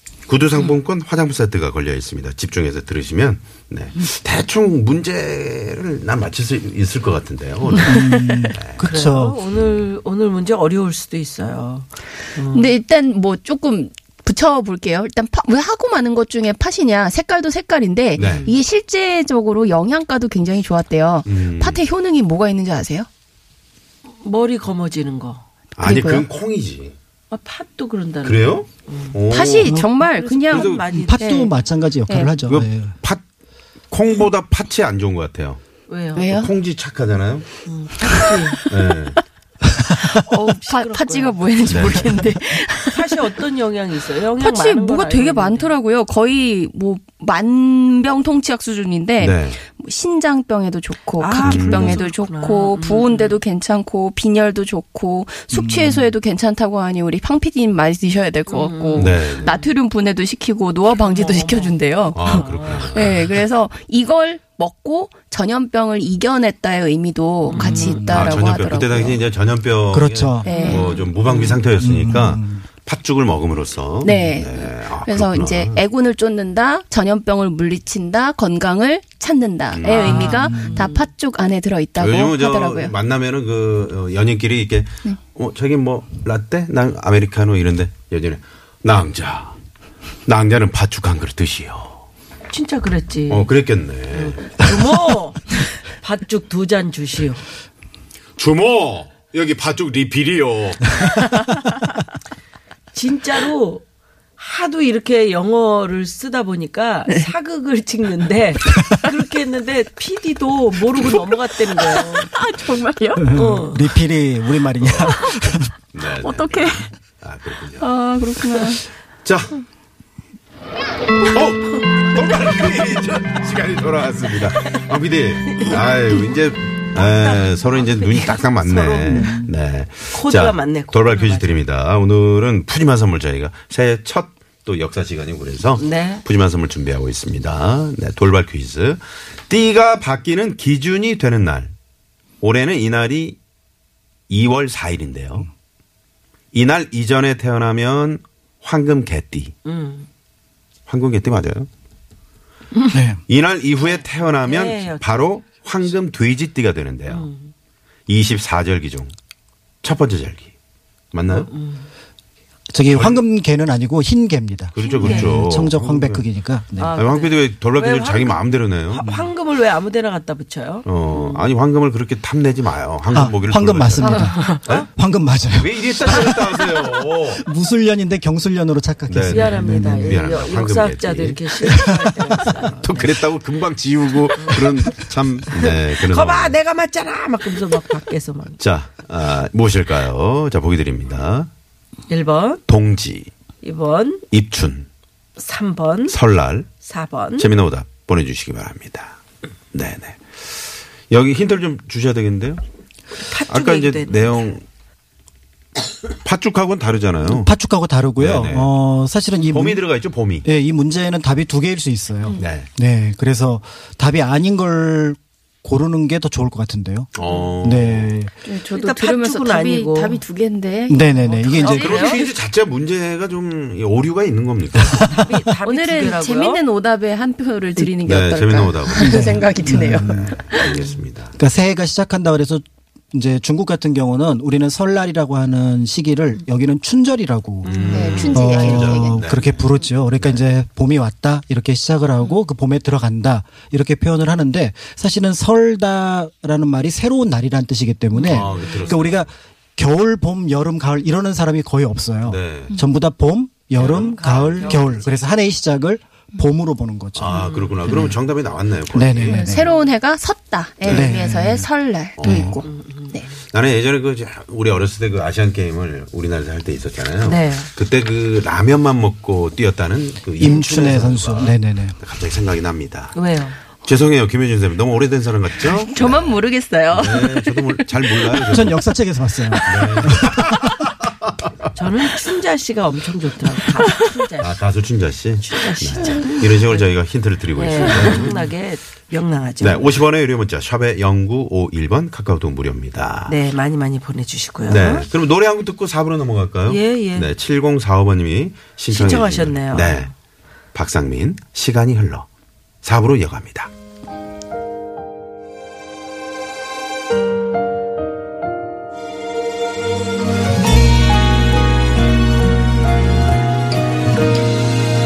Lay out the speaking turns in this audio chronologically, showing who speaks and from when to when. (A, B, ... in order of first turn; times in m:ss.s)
0:00.3-0:08.8 A
0:07.8-0:12.7 B
0:07.8-0:09.4 C
0:09.5-0:09.8 A
0:12.5-0:23.1 D
0:18.2-0:18.5 A
0:18.2-0:18.5 B
0:21.2-0:21.8 A
0:24.2-0:25.4 B
0:25.8-0:26.9 A
0:25.8-0:26.3 D
0:27.3-0:29.2 B
0:28.2-0:29.7 A
0:29.3-0:31.5 D
0:29.6-0:29.9 C
0:29.7-0:31.4 B
0:30.5-0:30.8 A
0:30.9-0:32.9 C
0:32.1-0:32.3 D
0:32.5-0:33.2 A
0:33.9-0:35.6 A
0:35.9-0:36.3 B
0:36.2-0:36.5 D
0:36.2-0:37.5 A
0:37.6-0:38.6 B
0:38.1-0:38.6 D
0:38.6-0:39.2 A
0:40.0-0:43.3 D
0:40.3-0:42.0 B
0:41.6-0:42.2 A
0:42.8-0:45.7 B
0:44.4-1:09.2 D
0:49.2-0:49.6 A
0:51.2-0:53.4 B
0:51.4-0:52.0 A
0:55.5-0:56.1 C
0:58.5-0:59.6 B
0:59.0-0:59.5 A
1:00.9-1:03.0 B
1:02.1-1:03.3 A
1:07.4-1:08.1 B
1:07.6-1:08.4 C
1:08.1-1:15.8 A
1:09.9-1:10.5 C
1:10.4-1:10.9 D
1:10.5-1:11.6 B
1:11.8-1:12.6 C
1:14.0-1:22.9 D
1:14.0-1:14.4 C
1:19.7-1:20.4 A
1:19.8-1:21.1 B
1:20.2-1:20.9 C
1:22.0-1:29.6 A
1:30.2-1:32.0 A
1:32.5-1:33.5 B
1:33.3-1:34.6 A
1:34.1-1:37.4 B
1:38.4-1:41.2 A
1:42.9-1:43.8 B
1:44.4-1:52.3 B
1:51.8-1:53.4 D
1:53.2-1:55.7 C
1:53.3-1:53.9 B
1:54.8-1:55.3 A
1:55.9-1:57.9 A
1:56.2-1:56.8 D
1:57.8-1:58.8 D
1:58.5-1:59.6 A
2:01.2-2:21.7 A
2:06.9-2:09.4 B
2:09.1-2:09.5 C
2:10.1-2:11.6 B
2:15.8-2:16.2 B
2:22.4-2:23.4 A
2:24.3-2:25.5 A
2:26.5-2:29.5 A
2:29.6-2:30.1 B
2:30.9-2:31.7 A
2:32.9-2:33.2 C
2:33.3-2:37.3 A
2:33.8-2:35.2 B
2:37.1-2:37.5 B
2:38.1-2:39.1 A
2:39.8-2:40.5 A
2:41.1-2:41.5 A
2:41.3-2:41.9 B
2:42.7-2:47.0 C
2:42.9-2:43.2 A
2:44.7-2:46.2 A
2:44.8-2:45.7 B
2:46.8-2:51.5 B
2:46.9-2:49.0 A
2:49.0-2:49.3 C
2:50.8-2:54.9 A
2:53.1-2:56.7 C
2:54.2-2:54.9 B
2:55.5-2:57.4 A
2:57.3-3:00.3 C
2:59.1-3:01.4 A
2:59.2-3:03.2 B
3:01.6-3:02.5 C
3:02.8-3:06.5 A
3:04.4-3:04.7 B
3:05.6-3:08.6 B
3:08.6-3:11.5 A
3:12.1-3:12.6 B
3:12.7-3:13.3 A
3:13.6-3:14.2 B
3:14.3-3:14.9 A
3:15.4-3:16.2 B
3:16.1-3:16.7 A
3:16.8-3:17.5 B
3:17.4-3:19.2 A
3:19.7-3:22.6 A
3:23.2-3:24.5 B
3:23.5-3:24.6 A
3:26.2-3:27.5 A
3:27.2-3:29.8 C
3:28.2-3:28.7 A
3:29.5-3:30.5 A
3:30.4-3:37.1 C
3:32.4-3:32.7 A
3:37.1-3:38.1 A
3:37.6-3:38.3 C
3:38.4-3:42.3 D
3:38.7-3:40.2 B
3:40.9-3:41.9 C
3:41.5-3:42.2 B
3:41.7-3:45.1 A
3:44.7-3:45.4 C
3:45.1-3:46.6 B
3:45.6-3:50.6 D
3:48.0-3:51.3 A
3:48.9-3:50.4 C
3:50.6-3:51.0 B
3:51.4-4:18.2 C
3:57.6-3:58.4 B
3:57.7-3:59.7 A
3:57.9-3:59.2 D
4:08.2-4:09.3 A
4:08.3-4:09.0 B
4:12.2-4:12.7 A
4:13.8-4:15.0 A
4:13.8-4:15.0 B
4:17.2-4:19.5 A
4:17.3-4:18.1 B
4:18.9-4:19.7 C
4:19.3-4:23.3 D
4:20.8-4:21.1 A
4:20.9-4:21.7 C
4:22.2-4:22.5 A
4:22.2-4:22.6 C
4:22.6-4:23.2 B
4:23.4-4:33.1 A
4:27.2-4:27.7 B
4:30.4-4:32.0 C
4:33.1-4:33.6 B
4:33.8-4:36.4 A
4:35.6-4:38.3 D
4:36.9-4:38.8 A
4:38.4-4:40.8 C
4:39.6-4:41.7 A
4:41.8-4:44.6 B
4:44.4-4:48.5 A
4:45.4-4:46.9 B
4:46.0-4:46.3 D
4:47.6-4:50.0 B
4:49.6-4:53.4 A
4:53.3-4:55.1 B
4:54.7-5:00.1 A
4:56.7-4:57.3 B
4:58.9-5:00.1 B
5:00.7-5:02.3 A
5:02.8-5:03.7 A